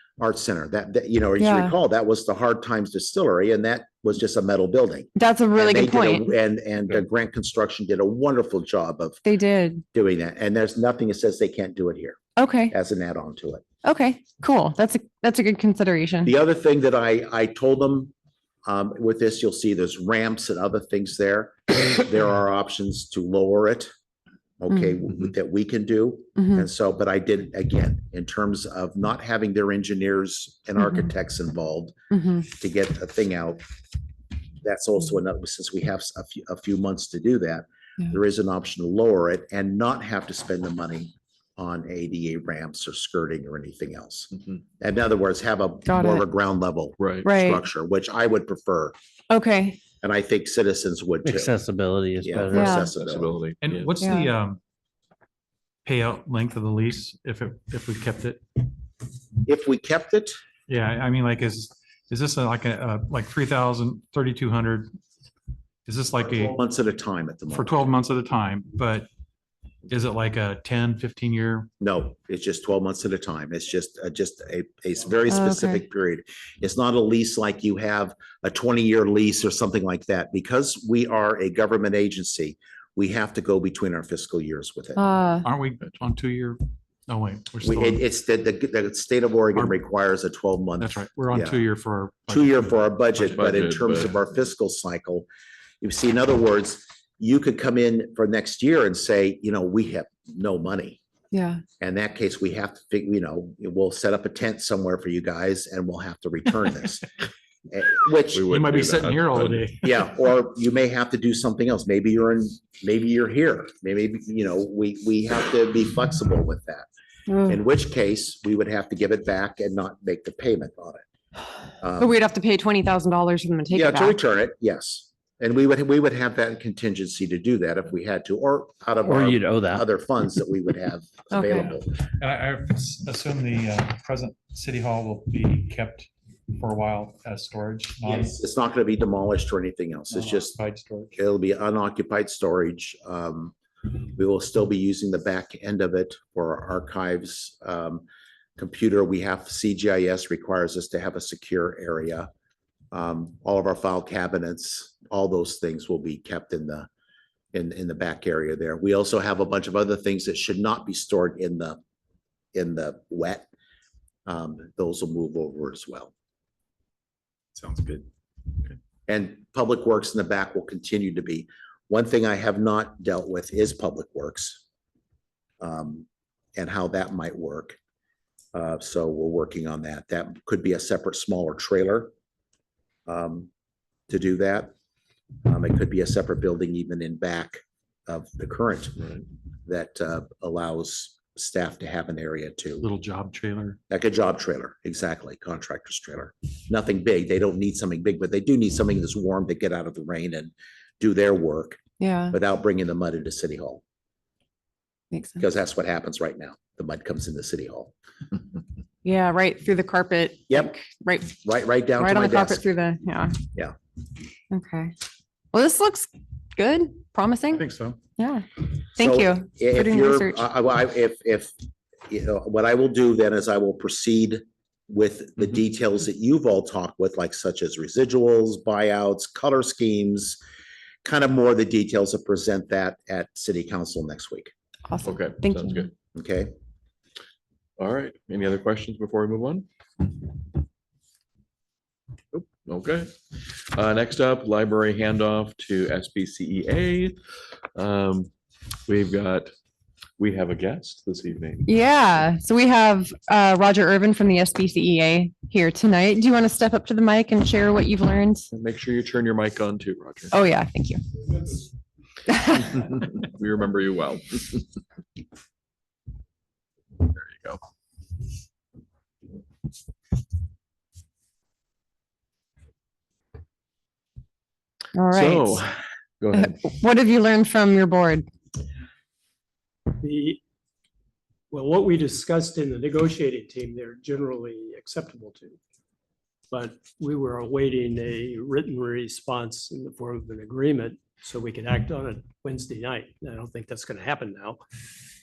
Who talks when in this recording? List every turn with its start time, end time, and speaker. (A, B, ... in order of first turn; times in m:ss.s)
0:00.2-0:09.2 A
0:01.4-0:01.7 B
0:05.2-0:06.3 B
0:09.2-0:09.8 B
0:09.9-0:13.6 A
0:12.4-0:12.7 B
0:13.8-0:16.3 B
0:16.2-0:18.1 A
0:18.7-0:23.9 A
0:24.6-0:33.6 A
0:26.4-0:26.7 B
0:32.1-0:32.4 B
0:34.6-0:48.9 A
0:45.9-0:46.2 B
0:47.0-0:47.3 C
0:47.2-0:47.6 B
0:49.3-0:49.8 B
0:50.0-0:51.5 A
0:51.2-0:53.0 D
0:52.2-0:53.4 A
0:52.5-0:52.9 B
0:53.0-0:54.0 C
0:53.6-0:54.6 E
0:54.0-0:54.3 B
0:55.8-0:58.6 E
0:59.4-1:00.4 A
1:00.7-1:04.9 E
1:05.9-1:06.6 E
1:06.2-1:07.9 A
1:07.5-1:09.1 E
1:09.9-1:11.7 E
1:11.8-1:25.0 A
1:15.3-1:15.8 B
1:25.0-1:25.4 B
1:25.4-1:28.0 E
1:27.6-1:31.6 A
1:30.8-1:32.9 E
1:32.3-1:35.3 A
1:33.2-1:34.1 C
1:35.8-1:41.0 A
1:41.3-1:41.6 B
1:41.8-1:47.1 A
1:47.7-1:48.5 A
1:48.3-1:49.7 C
1:48.5-1:50.0 E
1:49.8-1:56.9 A
1:57.3-1:57.6 B
1:57.4-2:01.0 A
2:01.8-2:02.1 A
2:02.0-2:04.2 B
2:03.7-2:12.0 A
2:09.0-2:09.8 D
2:11.3-2:11.7 B
2:12.2-2:18.4 E
2:18.0-2:20.6 A
2:20.1-2:21.1 E
2:21.2-2:28.0 A
2:28.6-2:32.3 A
2:32.9-2:36.9 A
2:37.5-2:41.8 A
2:42.5-2:43.5 A
2:44.2-2:46.1 A
2:47.6-2:48.0 E
2:49.1-2:54.6 A
2:55.6-2:57.8 A
2:58.5-3:02.1 A
3:03.1-3:03.5 A
3:04.1-3:04.7 A
3:05.4-3:12.9 A
3:12.8-3:13.8 E
3:13.9-3:21.8 A
3:22.0-3:22.3 B
3:22.3-3:23.8 A
3:25.1-3:25.4 B
3:25.4-3:27.9 A
3:29.0-3:31.4 B
3:30.5-3:30.8 A
3:31.4-3:32.6 A
3:32.0-3:33.3 B
3:34.5-3:34.9 B
3:35.5-3:37.6 B
3:37.5-3:38.0 E
3:38.2-3:40.4 B
3:39.0-3:41.5 A
3:42.1-3:50.4 A
3:51.0-3:54.5 A
3:54.9-3:55.9 B
3:55.0-3:55.9 C
3:56.1-3:56.5 A
3:57.8-3:59.6 C
4:02.3-4:03.1 C
4:03.7-4:07.2 C
4:07.8-4:08.3 C
4:08.8-4:09.5 C
4:10.2-4:11.7 C
4:11.6-4:18.5 B
4:18.5-4:20.4 C
4:20.3-4:21.0 B
4:22.3-4:22.7 B
4:22.6-4:24.6 C
4:27.0-4:27.6 C
4:34.9-4:35.6 B
4:35.1-4:36.6 C
4:36.3-4:38.2 B
4:39.9-4:40.4 F
4:41.5-4:45.6 F
4:46.5-4:54.6 F